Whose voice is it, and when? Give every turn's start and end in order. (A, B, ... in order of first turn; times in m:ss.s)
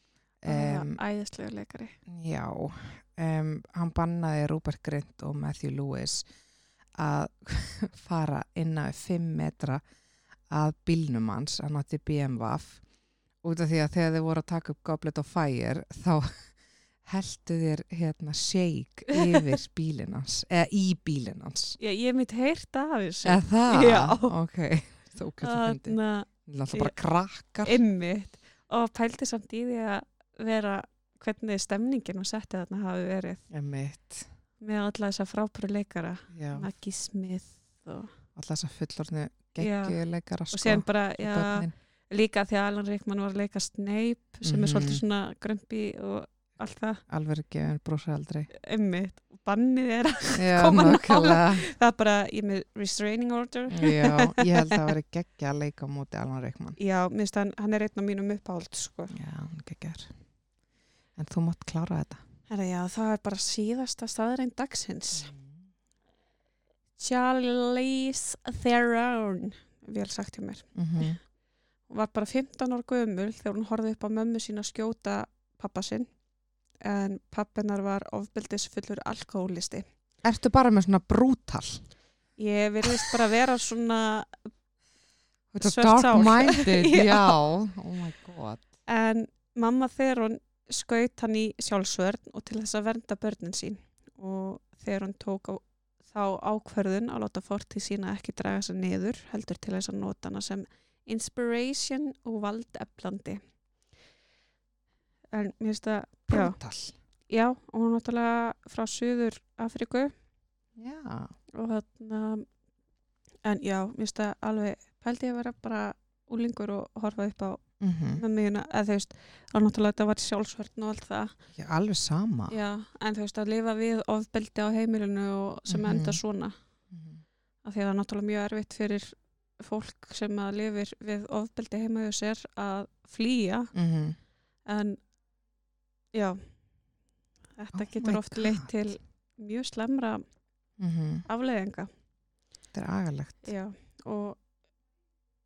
0:00.4-0:01.0 A
0:00.5-0:02.0 B
0:02.1-0:06.2 A
0:07.0-0:09.8 A
0:10.5-0:12.8 A
0:13.4-0:16.4 A
0:17.0-0:21.8 A
0:19.1-0:19.4 B
0:21.8-0:24.3 B
0:23.2-0:27.8 A
0:25.4-0:26.9 B
0:27.6-0:33.4 B
0:33.5-0:34.3 A
0:34.6-0:38.1 B
0:36.3-0:36.7 A
0:38.4-0:41.7 A
0:39.6-0:40.0 B
0:40.5-0:47.0 B
0:44.4-0:45.0 A
0:47.1-0:48.5 A
0:48.5-0:54.9 B
0:50.4-0:51.7 A
0:53.7-0:56.8 A
0:56.8-0:59.1 B
0:59.1-1:00.1 A
1:01.2-1:02.2 A
1:02.5-1:05.3 B
1:05.2-1:05.6 A
1:07.0-1:11.2 B
1:10.8-1:11.2 A
1:11.9-1:16.1 B
1:16.8-1:19.8 B
1:20.2-1:21.8 A
1:22.4-1:24.5 B
1:25.5-1:28.6 A
1:25.6-1:27.4 B
1:28.9-1:43.4 B
1:45.3-1:46.6 B
1:46.3-1:47.0 A
1:47.3-1:50.1 B
1:50.8-1:51.3 A
1:51.6-1:52.5 B
1:53.4-1:57.6 B
1:57.8-1:58.2 A
1:58.2-2:01.4 B
2:01.6-2:02.6 A
2:02.5-2:06.6 B
2:05.7-2:06.2 A
2:06.9-2:07.2 A
2:07.6-2:13.7 B
2:13.7-2:14.2 A
2:14.7-2:15.0 B
2:16.1-2:16.4 B
2:17.6-2:20.2 B
2:17.7-2:18.7 A
2:20.8-2:21.3 A
2:21.3-2:21.9 B
2:22.7-2:23.5 A
2:23.4-2:24.4 B